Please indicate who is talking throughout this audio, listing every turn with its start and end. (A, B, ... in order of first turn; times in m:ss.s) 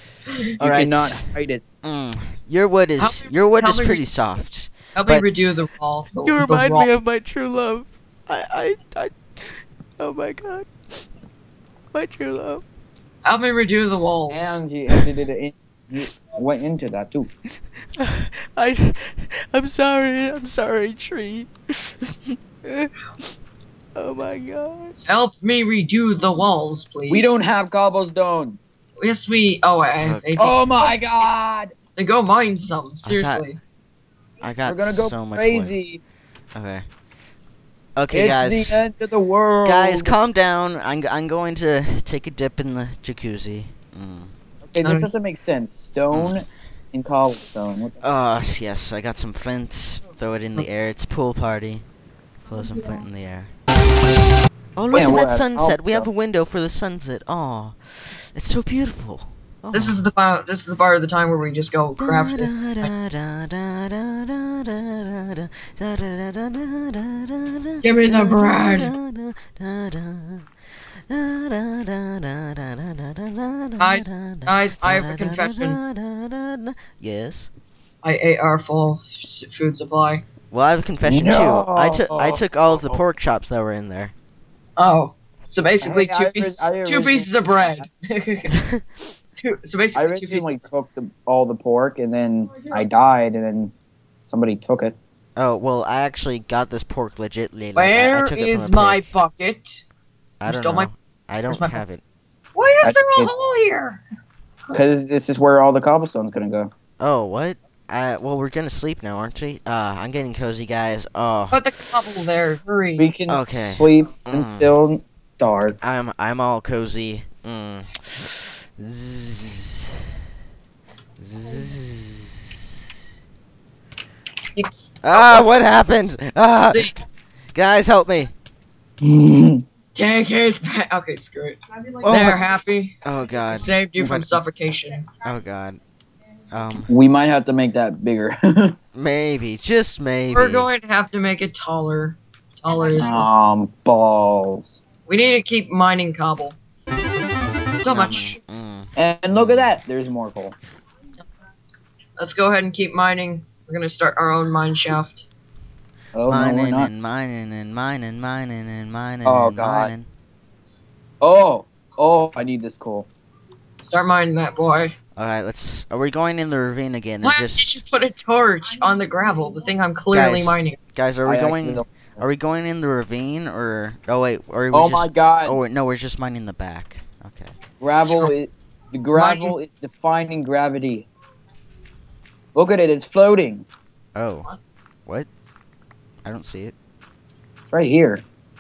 0:00.6-0:01.3 A
0:00.6-0:01.6 B
0:01.8-0:05.2 A
0:03.0-0:04.0 C
0:05.0-0:06.9 C
0:06.2-0:10.7 A
0:11.9-0:12.6 A
0:13.2-0:14.6 C
0:14.3-0:17.3 B
0:18.0-0:22.9 A
0:24.0-0:25.0 A
0:25.1-0:27.2 C
0:27.1-0:28.6 B
0:29.0-0:30.6 C
0:30.0-0:30.3 A
0:30.4-0:31.7 B
0:32.0-0:33.6 C
0:33.0-0:33.5 A
0:34.4-0:35.8 A
0:34.6-0:36.0 B
0:36.6-0:36.8 A
0:38.0-0:38.9 A
0:38.1-0:40.1 B
0:39.6-0:44.3 A
0:44.7-0:48.0 B
0:44.8-0:45.1 C
0:46.1-0:46.4 A
0:48.0-0:51.8 A
0:52.4-0:53.5 A
0:54.8-1:00.0 A
0:54.9-0:56.1 B
0:59.7-1:02.9 C
1:02.0-1:10.5 A
1:07.8-1:08.9 C
1:11.1-1:17.5 A
1:13.8-1:15.8 C
1:18.0-1:20.2 C
1:20.5-1:24.1 A
1:21.0-1:23.0 B
1:24.8-1:28.6 C
1:25.8-1:27.8 B
1:29.4-1:30.5 C
1:30.0-1:33.7 B
1:34.3-1:35.0 B
1:35.4-1:39.1 A
1:37.8-1:39.8 C
1:40.4-1:42.0 A
1:40.4-1:40.9 C
1:41.5-1:41.8 C
1:42.6-1:44.0 C
1:42.8-1:43.3 B
1:44.7-1:46.7 B
1:47.0-1:51.6 A
1:51.5-1:53.1 C
1:53.0-1:55.8 B
1:53.3-1:54.7 A
1:55.8-1:59.9 A
2:01.2-2:02.4 A
2:04.6-2:05.5 C
2:05.0-2:06.9 A
2:06.7-2:07.0 C
2:07.6-2:08.3 A
2:09.0-2:09.6 B
2:09.9-2:13.0 C
2:12.0-2:12.4 A
2:13.0-2:14.4 A
2:13.5-2:15.1 C
2:15.2-2:15.8 A
2:16.5-2:16.9 A
2:16.9-2:18.8 B
2:19.0-2:20.7 A
2:20.3-2:23.3 C
2:23.0-2:24.8 B
2:25.1-2:26.6 C
2:27.8-2:28.4 C
2:27.9-2:29.8 A
2:29.0-2:30.6 B
2:32.2-2:35.3 C
2:36.1-2:36.9 B
2:36.3-2:40.1 A
2:39.2-2:39.9 B
2:41.2-2:43.1 B
2:43.8-2:45.0 C
2:45.2-2:47.8 A
2:47.2-2:50.8 C
2:50.1-2:57.6 A
2:51.2-2:52.2 B
2:54.7-2:55.6 B
2:57.8-3:01.1 B
2:58.1-2:58.3 C
2:59.1-2:59.6 C
3:02.6-3:03.7 B
3:04.2-3:04.5 A
3:06.2-3:06.7 A
3:07.7-3:08.2 B